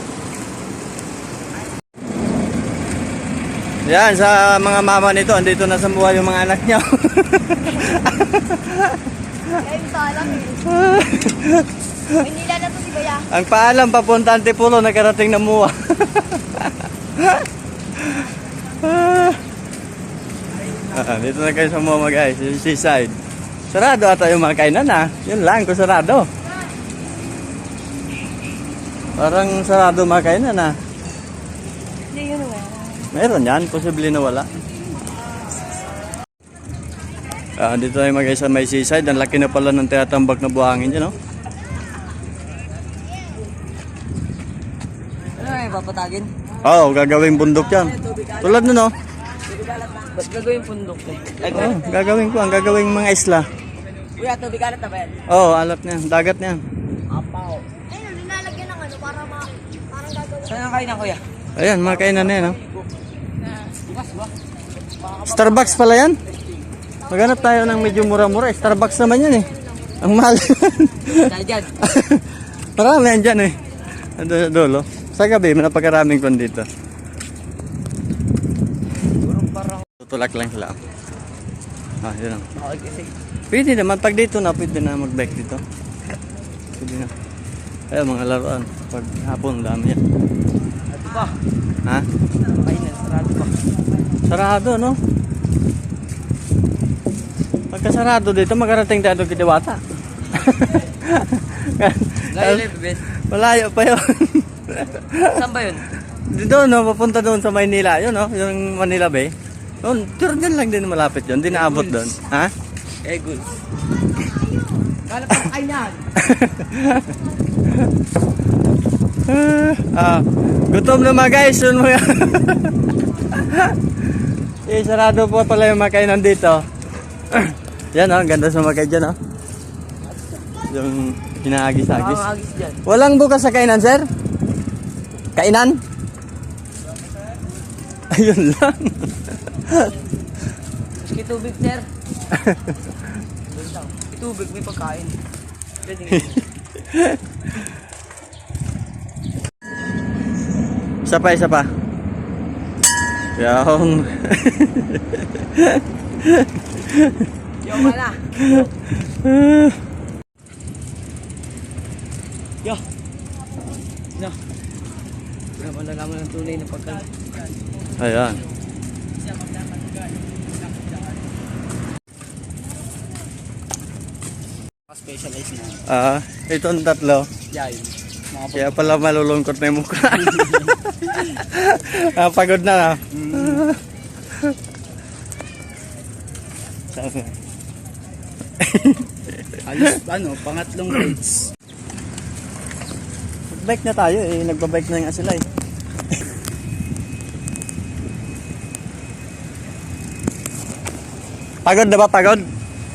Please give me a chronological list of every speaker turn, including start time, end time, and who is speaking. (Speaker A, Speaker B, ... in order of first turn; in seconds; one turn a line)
Speaker A: 3.9-9.0
Speaker B: 9.6-10.6
Speaker A: 10.7-11.7
Speaker B: 12.2-13.3
Speaker A: 13.3-18.2
Speaker A: 18.8-19.4
Speaker A: 20.9-23.1
Speaker A: 23.7-26.3
Speaker A: 29.2-30.8
Speaker B: 32.1-33.1
Speaker A: 33.1-34.5
Speaker A: 37.6-41.1
Speaker C: 45.4-46.3
Speaker A: 46.6-48.9
Speaker C: 47.7-48.7
Speaker C: 49.5-51.8
Speaker A: 51.5-53.5
Speaker C: 54.2-55.2
Speaker A: 55.3-56.6
Speaker C: 57.1-57.6
Speaker B: 57.9-60.6
Speaker C: 60.5-61.2
Speaker A: 61.6-62.6
Speaker C: 62.0-62.7
Speaker C: 63.8-64.3
Speaker C: 65.0-65.8
Speaker A: 65.2-66.2
Speaker A: 67.1-69.5
Speaker A: 70.0-72.2
Speaker C: 71.1-71.7
Speaker A: 72.8-73.6
Speaker A: 74.2-76.7
Speaker C: 79.2-79.8
Speaker A: 80.0-80.8
Speaker A: 82.0-82.5
Speaker C: 82.5-83.1
Speaker A: 83.5-85.6
Speaker A: 86.8-87.1
Speaker A: 87.9-90.0
Speaker C: 90.9-91.3
Speaker C: 92.6-93.5
Speaker A: 94.3-95.0
Speaker A: 97.7-99.8
Speaker A: 100.3-102.7
Speaker C: 102.3-103.0
Speaker A: 103.3-105.4
Speaker C: 105.3-105.8
Speaker A: 106.3-112.5
Speaker C: 111.5-112.1
Speaker C: 113.0-113.5
Speaker C: 115.1-116.0
Speaker A: 116.2-117.1
Speaker A: 119.3-122.7
Speaker A: 123.3-123.8
Speaker A: 124.7-126.6
Speaker A: 127.3-129.2
Speaker A: 130.7-132.2
Speaker C: 131.9-132.8
Speaker A: 132.8-134.1
Speaker A: 135.4-135.8
Speaker A: 138.1-139.1
Speaker C: 141.0-141.8
Speaker A: 142.3-142.6
Speaker C: 143.5-145.2
Speaker C: 145.8-146.4
Speaker A: 146.1-146.4
Speaker A: 146.9-147.2
Speaker A: 151.1-151.7
Speaker A: 153.4-157.2
Speaker C: 157.6-158.2
Speaker A: 158.4-159.8
Speaker C: 165.6-167.2
Speaker A: 168.0-168.4
Speaker C: 174.9-175.8
Speaker A: 175.9-177.3
Speaker C: 177.5-178.8
Speaker A: 178.5-183.8
Speaker C: 183.2-183.6
Speaker A: 186.9-187.3
Speaker A: 188.6-190.0
Speaker C: 189.7-191.5
Speaker A: 193.5-195.4
Speaker A: 201.6-202.4